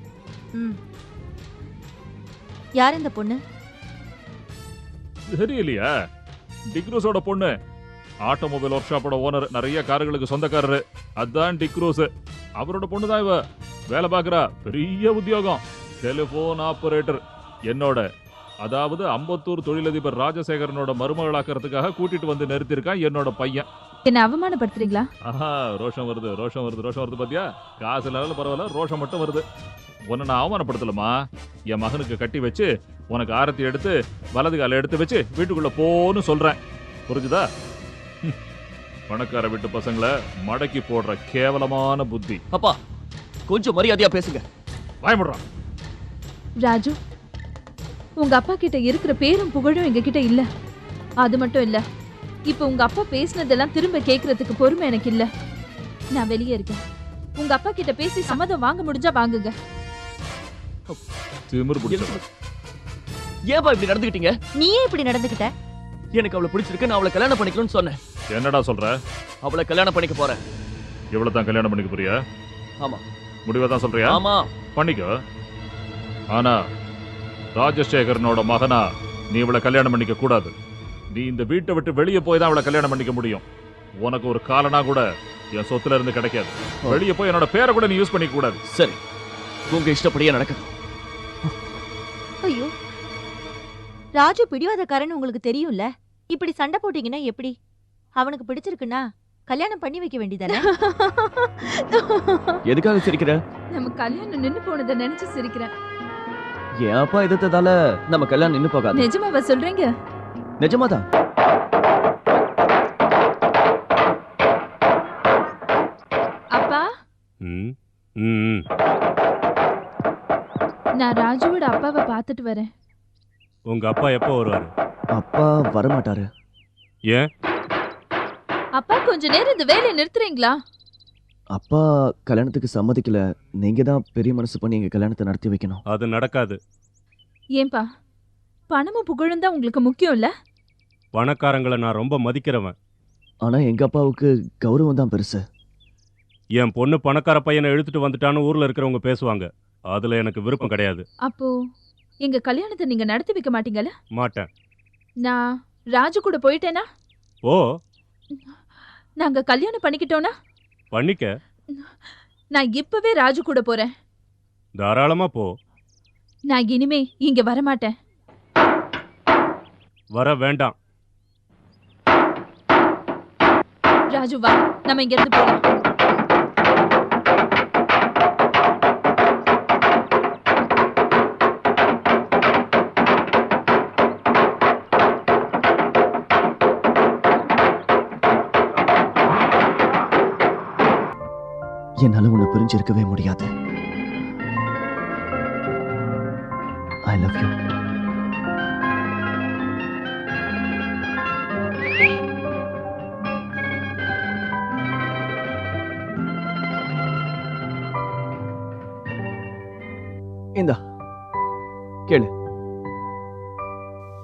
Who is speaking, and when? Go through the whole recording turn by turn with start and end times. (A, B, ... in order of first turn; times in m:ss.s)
0:02.8-0:03.4 A
0:05.3-0:05.9 B
0:06.7-0:07.5 B
0:08.3-0:12.1 B
0:12.6-0:18.0 B
0:18.6-0:23.7 B
0:24.1-0:25.1 C
0:25.2-0:29.4 B
0:30.1-0:31.1 B
0:31.7-0:37.5 B
0:39.1-0:42.4 B
0:42.5-0:42.8 D
0:43.5-0:44.4 D
0:45.0-0:45.4 B
0:46.6-0:47.0 C
0:48.2-0:50.5 C
0:51.2-0:51.8 C
0:52.5-0:55.3 C
0:56.1-0:56.8 C
0:57.4-0:59.5 C
1:01.5-1:02.2 B
1:01.9-1:02.2 D
1:03.5-1:04.3 D
1:04.6-1:05.5 A
1:06.2-1:08.0 D
1:08.3-1:09.0 B
1:09.4-1:10.4 D
1:11.1-1:12.2 B
1:13.5-1:14.2 B
1:14.0-1:14.5 D
1:14.8-1:15.1 B
1:17.6-1:20.5 B
1:21.1-1:23.4 B
1:24.0-1:25.0 B
1:25.6-1:28.6 B
1:28.7-1:29.0 D
1:29.7-1:30.7 D
1:32.4-1:32.7 A
1:34.2-1:37.5 A
1:38.2-1:40.7 A
1:40.5-1:42.6 C
1:42.7-1:43.4 D
1:43.7-1:45.7 C
1:46.8-1:49.1 D
1:48.9-1:49.9 C
1:50.6-1:51.0 D
1:56.6-1:56.9 C
1:57.4-1:58.6 E
2:01.0-2:02.7 C
2:03.7-2:04.7 E
2:05.2-2:06.3 D
2:08.8-2:10.5 C
2:11.5-2:15.8 D
2:15.9-2:16.6 E
2:17.6-2:17.8 C
2:18.7-2:20.3 C
2:21.1-2:22.7 E
2:23.4-2:25.4 D
2:26.6-2:31.0 E
2:31.2-2:31.5 C
2:32.2-2:33.9 C
2:34.2-2:34.5 E
2:35.9-2:36.8 C
2:39.2-2:40.3 C
2:40.9-2:41.3 E
2:42.5-2:43.9 C
2:44.8-2:45.5 E
2:46.5-2:47.9 C
2:50.1-2:50.7 E
2:54.1-2:55.6 C
3:12.0-3:13.5 D
3:17.1-3:17.5 D